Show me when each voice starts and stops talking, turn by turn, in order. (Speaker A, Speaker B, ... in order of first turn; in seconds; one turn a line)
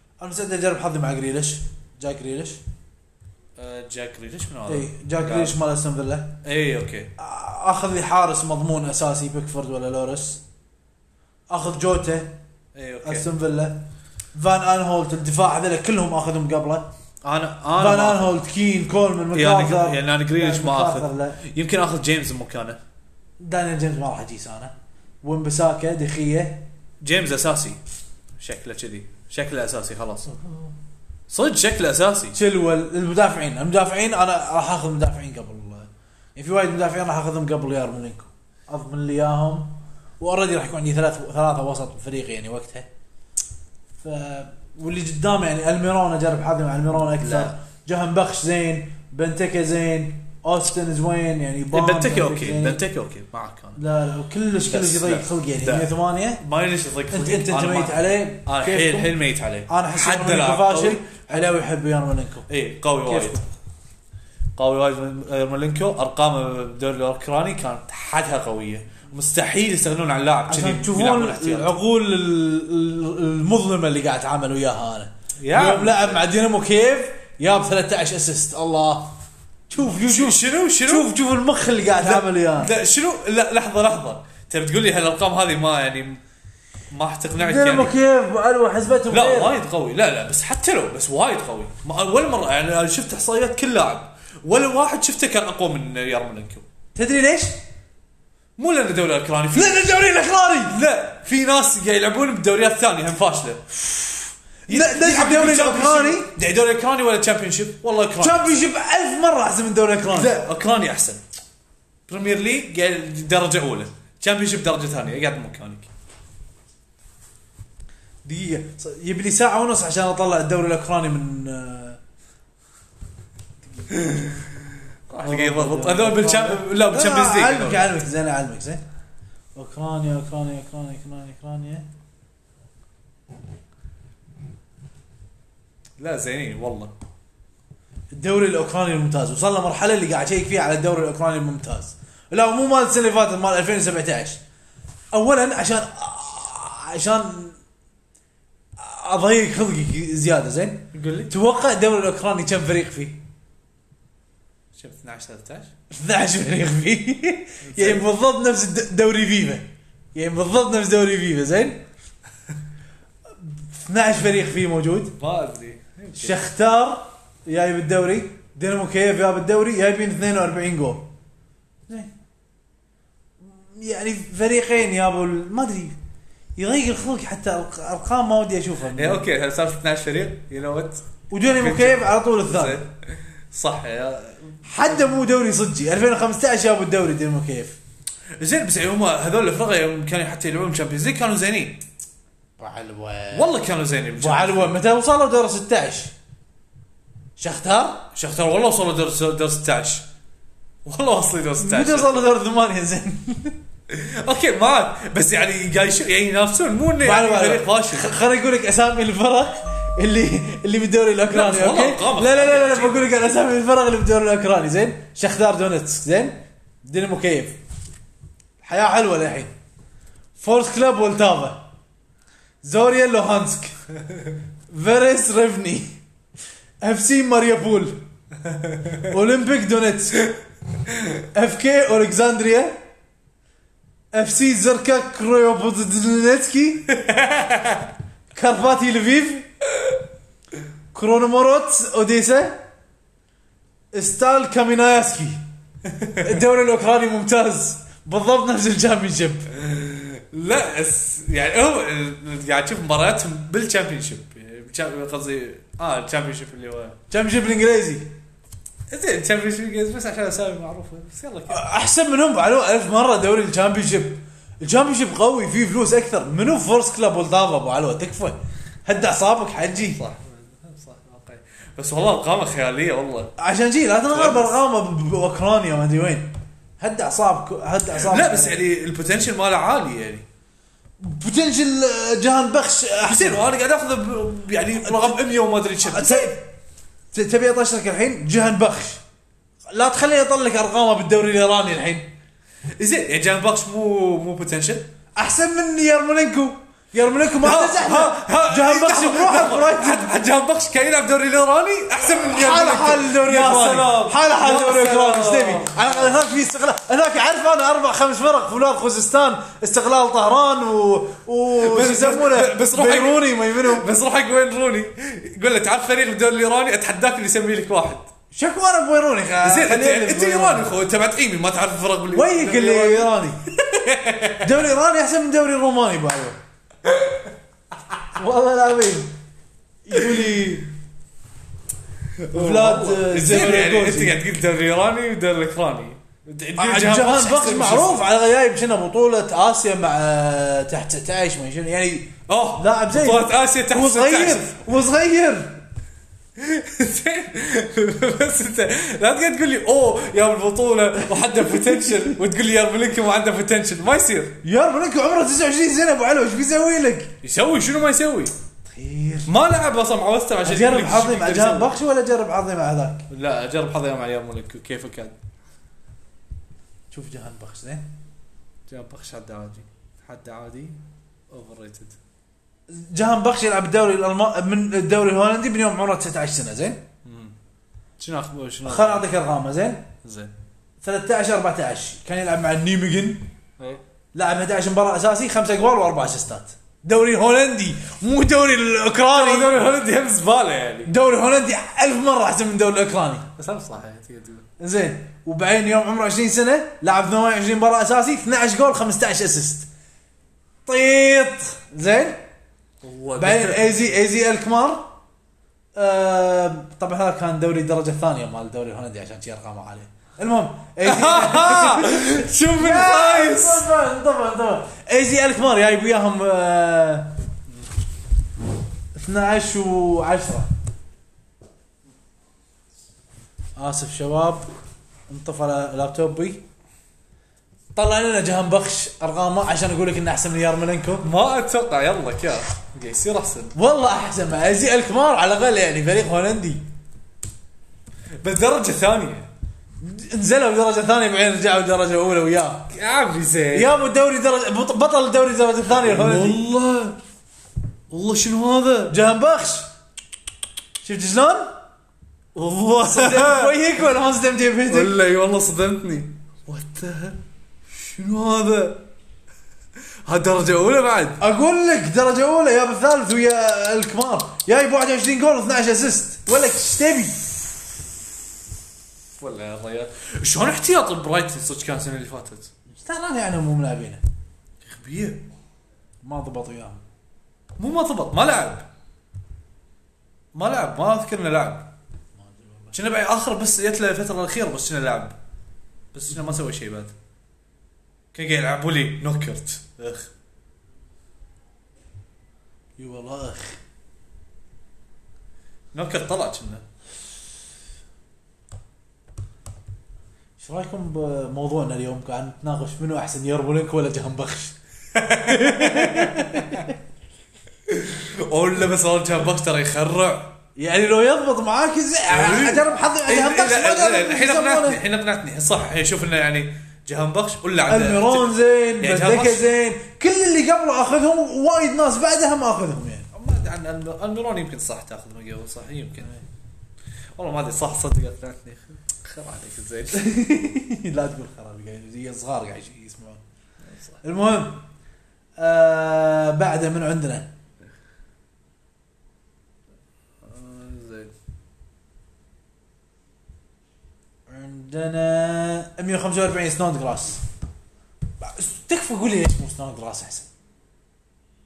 Speaker A: 0.2-2.6
Speaker B: 3.6-5.6
Speaker A: 4.7-6.4
Speaker B: 6.4-7.1
Speaker A: 7.2-10.4
Speaker A: 11.5-12.4
Speaker B: 12.7-13.3
Speaker A: 13.0-13.8
Speaker A: 14.3-16.9
Speaker B: 17.2-18.4
Speaker A: 17.8-21.4
Speaker B: 19.3-22.8
Speaker A: 23.4-26.7
Speaker B: 27.0-27.8
Speaker B: 28.4-30.4
Speaker A: 30.3-30.7
Speaker B: 31.3-32.4
Speaker A: 32.3-42.9
Speaker A: 44.0-52.8
Speaker B: 47.2-47.5
Speaker B: 51.7-53.8
Speaker A: 53.8-56.4
Speaker B: 54.6-61.4
Speaker A: 57.1-59.2
Speaker A: 59.7-62.5
Speaker B: 62.5-63.4
Speaker A: 63.0-63.4
Speaker B: 64.6-71.8
Speaker A: 70.5-79.2
Speaker B: 75.4-76.2
Speaker A: 79.7-82.7
Speaker B: 79.8-81.1
Speaker B: 82.0-86.2
Speaker B: 86.9-88.0
Speaker A: 87.4-89.6
Speaker B: 89.1-96.7
Speaker A: 97.0-97.6
Speaker B: 98.6-100.0
Speaker A: 99.5-100.8
Speaker B: 100.6-108.6
Speaker A: 104.7-106.3
Speaker A: 108.2-110.4
Speaker B: 110.1-111.2
Speaker B: 112.1-115.9
Speaker A: 118.2-122.0
Speaker B: 123.9-127.9
Speaker A: 123.9-124.2
Speaker A: 125.2-128.8
Speaker A: 129.6-131.9
Speaker B: 136.0-136.9
Speaker A: 138.1-144.4
Speaker A: 145.1-147.6
Speaker A: 148.8-153.2
Speaker B: 150.9-151.3
Speaker B: 154.7-155.7
Speaker A: 155.9-161.8
Speaker B: 157.6-158.1
Speaker A: 163.4-165.2
Speaker B: 165.2-166.5
Speaker A: 166.2-171.1
Speaker A: 171.9-172.1
Speaker A: 173.4-176.0
Speaker A: 176.6-179.3
Speaker B: 178.9-184.9
Speaker A: 181.3-182.8
Speaker A: 184.6-187.8
Speaker B: 188.4-191.8
Speaker A: 192.6-193.5
Speaker B: 193.3-194.8
Speaker A: 194.2-196.1
Speaker A: 197.4-198.1
Speaker B: 198.1-200.1
Speaker B: 200.8-202.3
Speaker A: 201.6-203.6
Speaker B: 203.9-208.1
Speaker A: 207.0-217.6
Speaker B: 211.3-213.1
Speaker A: 218.6-219.5
Speaker A: 220.4-221.7
Speaker A: 222.6-223.8
Speaker A: 224.7-226.0
Speaker A: 226.8-228.1
Speaker B: 228.5-229.1
Speaker A: 229.1-230.2
Speaker A: 231.2-232.8
Speaker A: 234.1-236.9
Speaker B: 236.9-237.9
Speaker A: 238.3-239.5
Speaker A: 240.9-242.6
Speaker A: 243.9-245.4
Speaker B: 245.8-246.4
Speaker A: 246.2-249.5
Speaker B: 249.5-257.0
Speaker A: 257.1-258.1
Speaker B: 258.9-261.6
Speaker A: 261.5-270.0
Speaker B: 269.8-273.3
Speaker A: 273.4-278.6
Speaker B: 274.1-274.5
Speaker B: 277.9-280.3
Speaker A: 281.0-283.4
Speaker B: 283.0-286.4
Speaker A: 284.8-285.2
Speaker A: 285.8-286.5
Speaker A: 287.1-289.0
Speaker A: 289.7-292.1
Speaker B: 292.8-294.9
Speaker A: 295.2-300.2
Speaker B: 297.4-306.1
Speaker A: 302.0-313.9
Speaker B: 311.5-318.1
Speaker A: 318.3-320.8
Speaker B: 319.4-324.5
Speaker A: 322.1-323.4
Speaker A: 324.4-326.4
Speaker B: 326.9-327.2
Speaker A: 328.1-329.1
Speaker A: 329.9-330.7
Speaker B: 332.2-338.1
Speaker A: 332.3-334.2
Speaker A: 336.6-345.6
Speaker B: 342.3-344.5
Speaker B: 346.4-354.4
Speaker A: 351.3-352.2
Speaker A: 354.4-357.1
Speaker B: 357.2-358.3
Speaker A: 358.6-359.4
Speaker B: 359.3-361.8
Speaker A: 360.4-363.1
Speaker B: 363.1-365.2
Speaker A: 366.9-367.9
Speaker B: 368.7-370.8
Speaker B: 371.3-372.0
Speaker A: 372.7-376.8
Speaker B: 377.1-377.3
Speaker B: 378.0-379.1
Speaker A: 378.6-379.9
Speaker B: 380.0-380.3
Speaker A: 380.8-383.3
Speaker A: 384.1-389.6
Speaker B: 389.1-390.9
Speaker A: 390.9-393.3
Speaker B: 393.4-394.5
Speaker A: 394.6-399.7
Speaker A: 400.7-402.2
Speaker B: 402.8-403.9
Speaker A: 403.2-404.9
Speaker A: 405.8-417.2
Speaker B: 410.8-413.7
Speaker A: 418.9-420.5
Speaker A: 423.6-424.5
Speaker A: 425.1-426.4
Speaker A: 427.8-431.1
Speaker B: 431.0-433.6
Speaker A: 433.6-436.6
Speaker B: 438.2-439.3
Speaker A: 439.8-442.7
Speaker B: 442.7-443.7
Speaker A: 443.5-446.4
Speaker B: 445.7-447.0
Speaker B: 447.9-449.0
Speaker A: 448.9-449.7
Speaker A: 450.8-451.6
Speaker B: 452.4-453.6
Speaker A: 452.8-455.0
Speaker B: 454.7-458.9
Speaker B: 460.1-461.2
Speaker A: 461.2-467.7
Speaker B: 469.2-472.5
Speaker A: 472.7-474.0
Speaker B: 474.6-475.3
Speaker A: 476.0-476.8
Speaker B: 477.6-478.7
Speaker B: 480.3-481.7
Speaker A: 482.2-482.7
Speaker B: 482.7-485.2
Speaker B: 485.9-486.9
Speaker B: 488.1-490.1
Speaker A: 492.8-493.6
Speaker B: 495.7-496.6
Speaker A: 500.4-504.6
Speaker B: 504.9-506.7
Speaker A: 505.1-506.8
Speaker B: 507.7-510.4
Speaker A: 510.6-514.8
Speaker B: 512.1-519.5
Speaker A: 517.7-523.1
Speaker B: 523.1-526.1
Speaker B: 527.2-530.0
Speaker A: 529.9-533.2
Speaker B: 533.6-534.0
Speaker A: 534.0-534.7
Speaker A: 535.4-537.3
Speaker B: 540.2-541.1
Speaker A: 544.3-547.2
Speaker A: 548.2-550.3